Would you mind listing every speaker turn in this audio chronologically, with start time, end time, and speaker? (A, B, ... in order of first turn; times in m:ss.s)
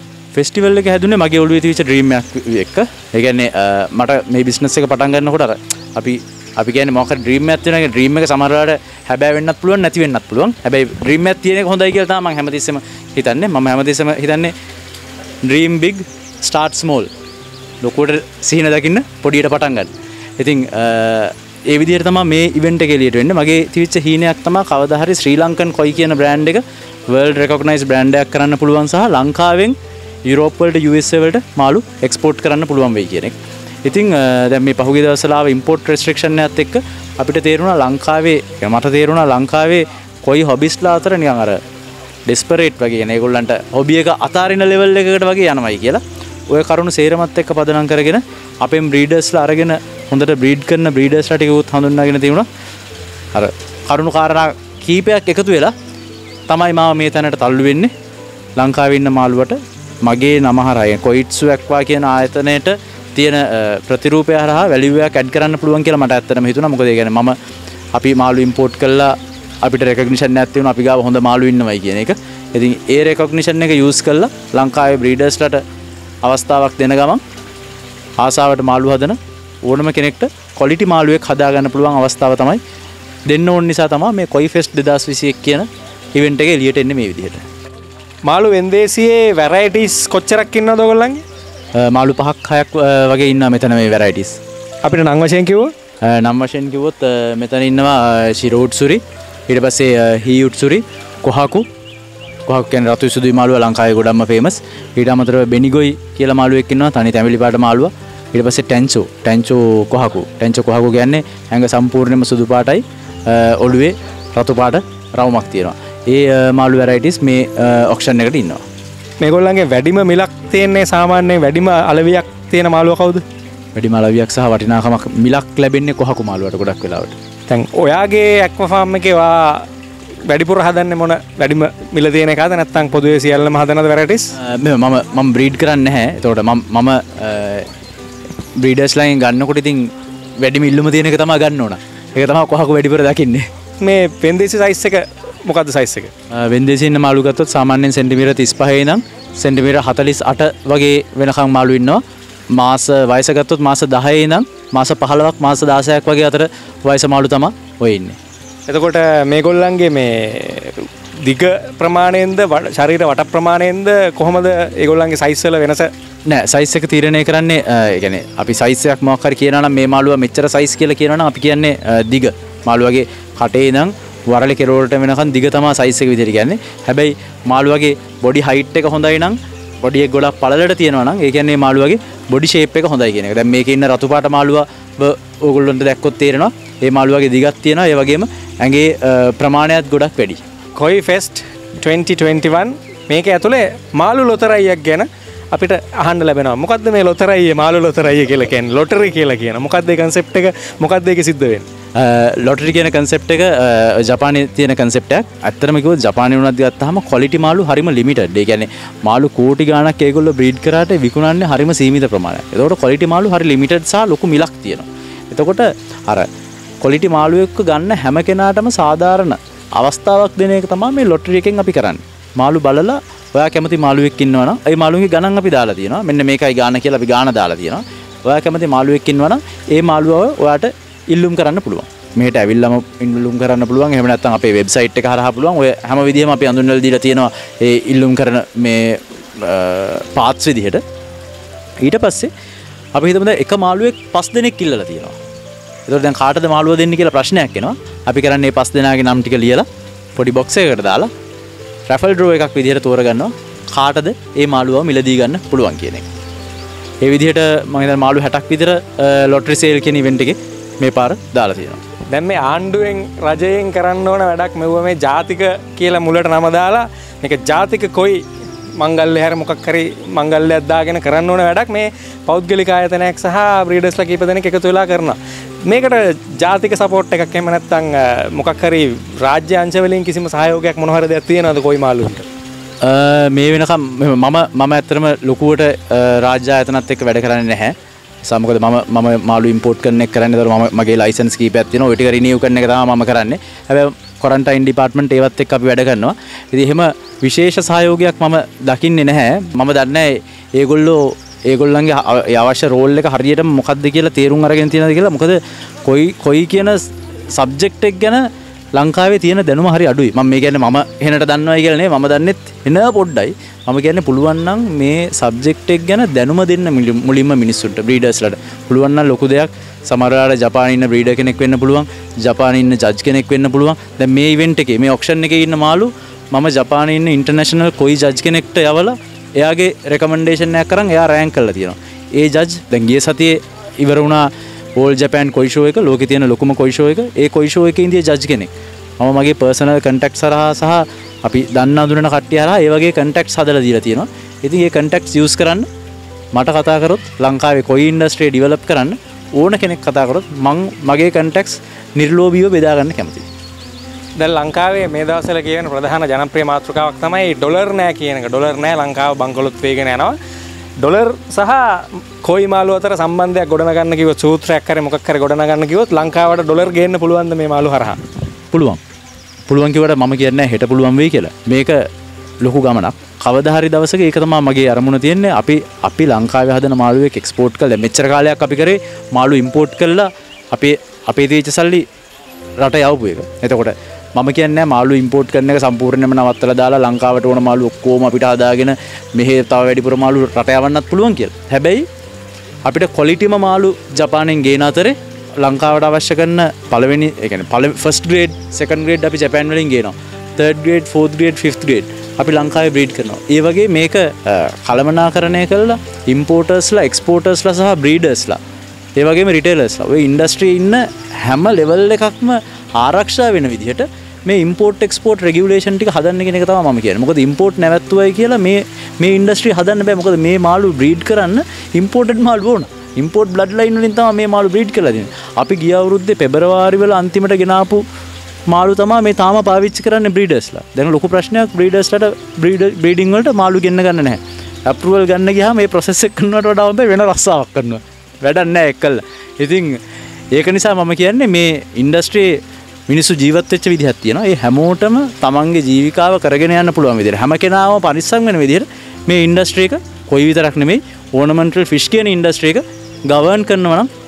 0:00.3-0:14.5 A
0:15.5-0:17.1 A
0:17.8-0:29.8 A
0:30.3-0:41.6 A
0:42.3-0:52.5 A
0:53.3-0:55.7 A
0:56.5-0:57.9 A
0:58.6-1:07.4 A
1:07.9-1:15.6 A
1:16.2-1:17.2 A
1:18.2-1:22.6 A
1:23.3-1:27.5 A
1:28.3-1:31.2 B
1:31.8-1:34.4 A
1:34.8-1:35.7 B
1:36.0-1:41.7 A
1:42.5-1:58.6 A
1:59.2-2:03.2 B
2:03.8-2:07.2 A
2:07.5-2:09.7 B
2:10.3-2:14.3 B
2:14.4-2:17.7 A
2:18.6-2:23.5 A
2:23.8-2:26.1 B
2:26.3-2:32.0 A
2:32.6-2:38.2 A
2:38.7-2:45.9 B
2:46.3-3:10.4 A
3:10.8-3:21.6 B
3:22.0-3:36.3 A
3:36.8-4:00.8 A
4:01.8-4:02.3 A
4:03.0-4:05.2 A
4:05.9-4:11.1 A
4:11.9-4:16.0 A
4:17.0-4:21.8 A
4:22.1-4:28.2 B
4:28.8-4:42.3 B
4:42.8-4:47.8 A
4:48.3-5:45.7 A
5:46.3-5:53.3 A
5:54.2-6:00.2 B
6:00.8-6:08.0 B
6:08.5-6:08.8 A
6:09.5-6:11.8 A
6:12.4-6:21.8 A
6:22.6-6:31.9 A
6:32.7-6:48.4 A
6:49.0-7:07.8 A
7:08.5-7:19.8 A
7:20.3-7:33.9 A